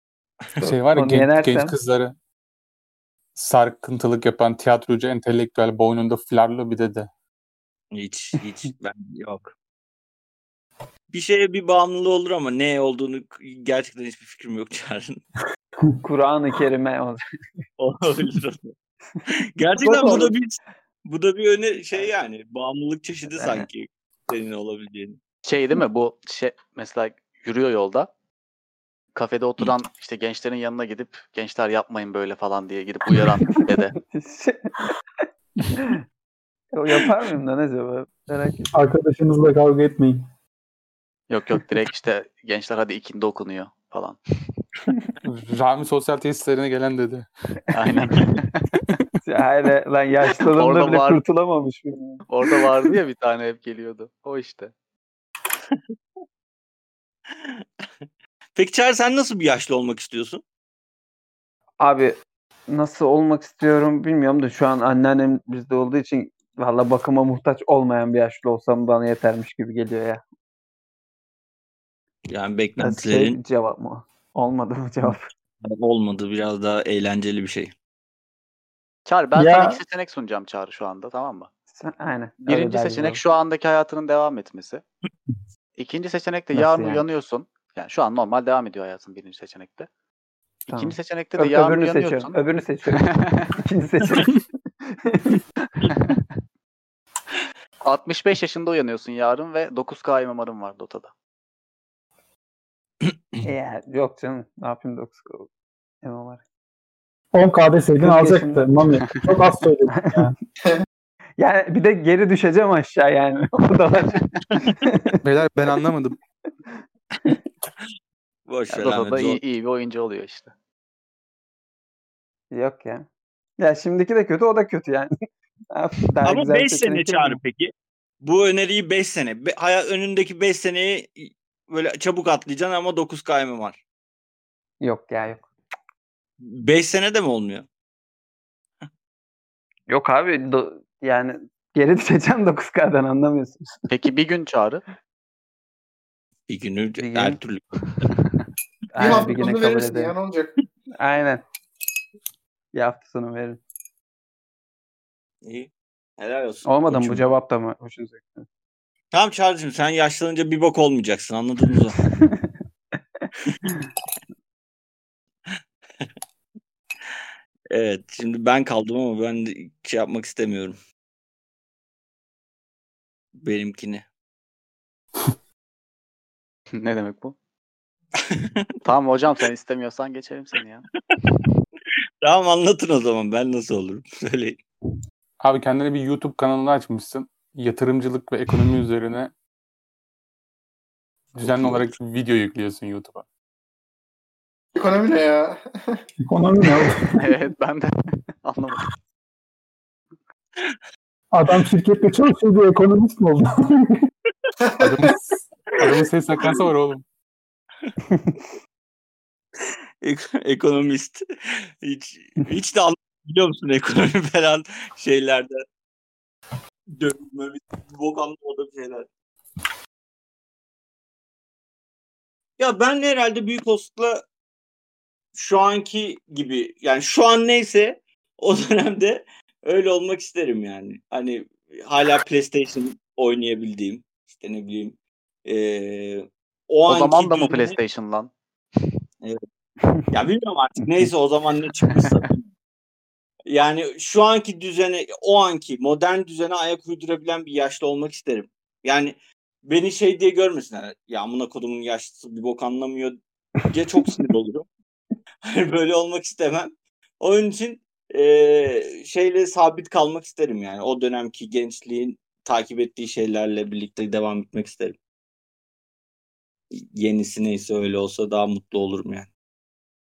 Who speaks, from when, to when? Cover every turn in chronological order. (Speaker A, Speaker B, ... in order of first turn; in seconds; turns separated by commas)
Speaker A: 0.6-1.7, Speaker B: 0.6-2.1, Speaker B: 3.3-7.1, Speaker C: 7.9-9.5, Speaker C: 11.1-15.2, Speaker A: 16.0-17.2, Speaker C: 17.8-18.7, Speaker C: 19.6-25.2, Speaker A: 19.8-20.3, Speaker A: 23.3-23.6, Speaker D: 25.4-28.1, Speaker D: 29.1-33.9, Speaker A: 33.5-35.2, Speaker A: 36.7-38.7, Speaker E: 38.7-40.2, Speaker D: 41.3-44.2, Speaker B: 45.2-47.3, Speaker D: 47.7-48.6, Speaker A: 49.2-52.2, Speaker D: 50.5-51.2, Speaker D: 52.3-54.7, Speaker C: 57.4-57.6, Speaker C: 58.5-60.4, Speaker A: 61.8-62.1, Speaker A: 62.7-70.2, Speaker C: 72.3-73.4, Speaker A: 72.8-75.3, Speaker C: 75.6-77.7, Speaker D: 79.0-81.5, Speaker E: 79.3-79.8, Speaker A: 81.8-83.2, Speaker D: 82.5-84.8, Speaker D: 85.8-89.9, Speaker A: 86.5-87.0, Speaker A: 90.7-95.4, Speaker D: 90.7-92.4, Speaker D: 93.0-93.5, Speaker D: 97.8-101.1, Speaker A: 103.4-105.5, Speaker A: 106.0-106.4, Speaker E: 107.3-110.3, Speaker A: 108.0-108.7, Speaker A: 111.4-115.1, Speaker B: 115.2-116.2, Speaker C: 118.5-119.4, Speaker D: 118.7-120.5, Speaker A: 122.5-123.0, Speaker A: 123.6-125.1, Speaker A: 125.7-127.4, Speaker C: 126.2-127.7, Speaker C: 128.2-133.8, Speaker A: 134.8-135.5, Speaker C: 136.4-137.7, Speaker A: 139.9-143.6, Speaker D: 143.9-144.8, Speaker C: 146.5-148.1, Speaker A: 147.0-147.4, Speaker A: 148.9-150.1, Speaker F: 149.0-150.5, Speaker A: 151.0-151.4, Speaker A: 152.7-153.6, Speaker C: 155.4-157.2, Speaker A: 156.7-158.5, Speaker C: 159.1-162.0, Speaker C: 167.7-170.8, Speaker C: 173.4-174.0, Speaker D: 176.7-177.3, Speaker C: 178.2-178.5, Speaker D: 178.8-180.8, Speaker C: 182.2-184.6, Speaker B: 185.4-189.3, Speaker B: 191.3-193.2, Speaker F: 194.8-196.0, Speaker E: 196.2-197.2, Speaker D: 197.2-198.8, Speaker E: 201.3-204.1, Speaker F: 204.6-205.1, Speaker B: 204.8-207.0, Speaker A: 208.1-208.4, Speaker C: 210.0-215.6, Speaker C: 216.9-219.1, Speaker C: 222.6-224.2, Speaker C: 225.3-237.8, Speaker D: 236.9-238.3, Speaker C: 240.1-242.4, Speaker C: 243.5-254.7, Speaker C: 255.5-265.0, Speaker C: 266.7-269.3